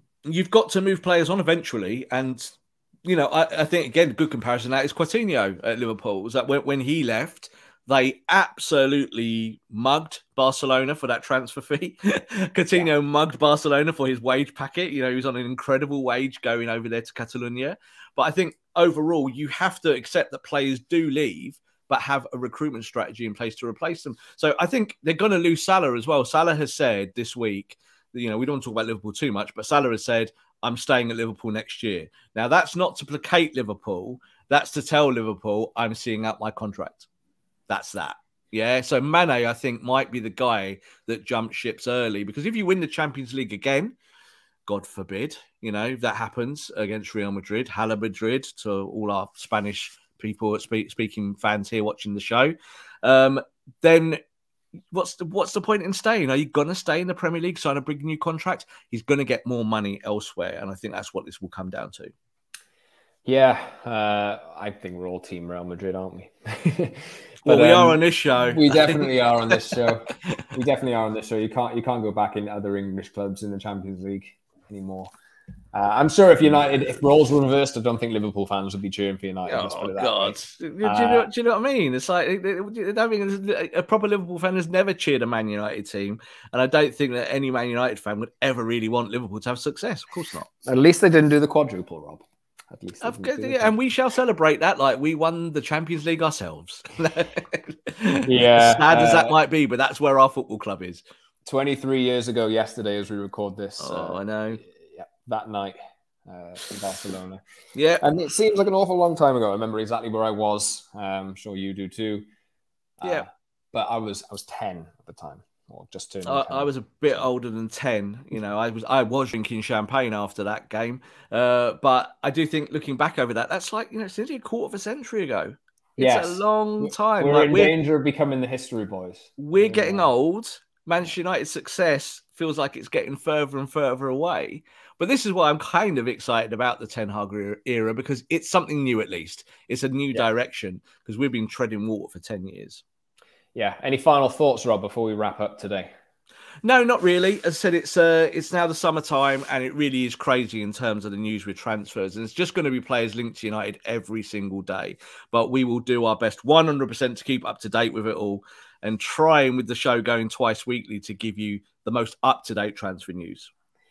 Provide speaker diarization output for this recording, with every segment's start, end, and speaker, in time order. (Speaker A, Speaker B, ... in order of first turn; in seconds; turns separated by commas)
Speaker A: 0.2-37.1, Speaker A: 37.7-44.0, Speaker A: 44.6-54.2, Speaker A: 54.9-62.1, Speaker B: 63.2-75.1, Speaker A: 67.4-70.1, Speaker B: 75.7-81.3, Speaker A: 79.5-90.5, Speaker B: 90.6-93.8, Speaker A: 93.0-101.0, Speaker B: 98.2-99.3, Speaker B: 101.5-107.4, Speaker A: 103.8-104.6, Speaker A: 107.8-108.0, Speaker B: 108.0-112.2, Speaker B: 113.0-116.7, Speaker A: 116.2-127.7, Speaker B: 126.0-130.1, Speaker A: 129.4-142.8, Speaker B: 143.5-145.9, Speaker A: 146.6-163.5